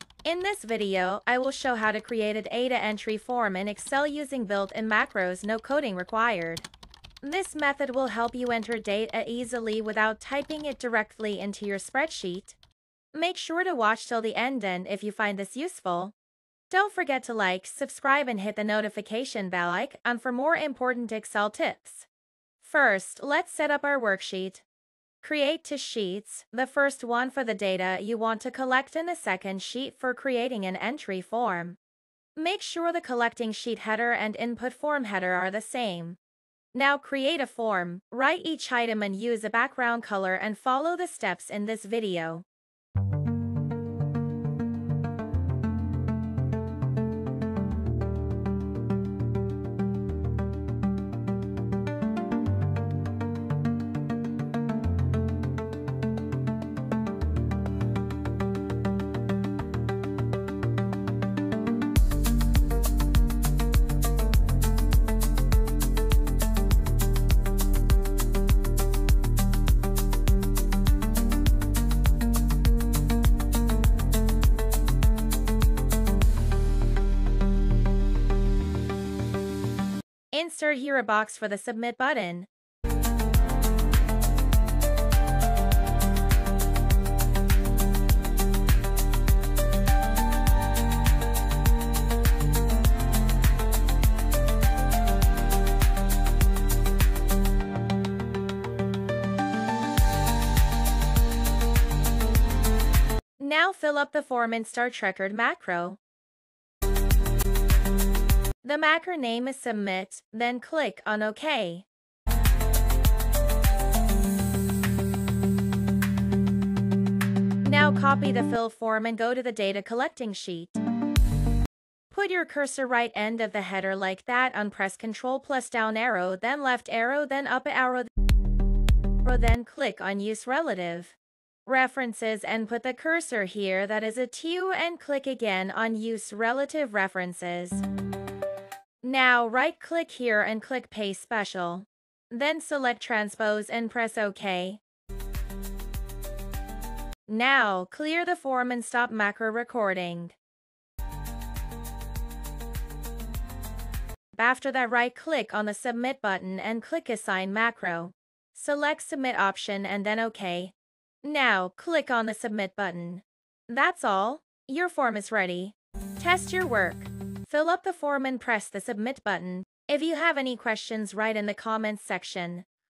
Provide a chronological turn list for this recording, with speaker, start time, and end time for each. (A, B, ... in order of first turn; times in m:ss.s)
0:00.2-0:06.7 A
0:07.2-0:12.6 A
0:13.1-0:16.1 A
0:16.7-0:22.1 A
0:22.6-0:24.6 A
0:25.2-0:31.8 A
0:32.4-0:36.2 A
0:36.7-0:42.4 A
1:20.3-1:22.5 A
1:43.4-1:46.0 A
1:48.6-1:51.9 A
1:57.6-2:00.8 A
2:02.1-2:08.1 A
2:09.2-2:17.8 A
2:19.0-2:24.8 A
2:27.3-2:30.4 A
2:34.3-2:52.6 A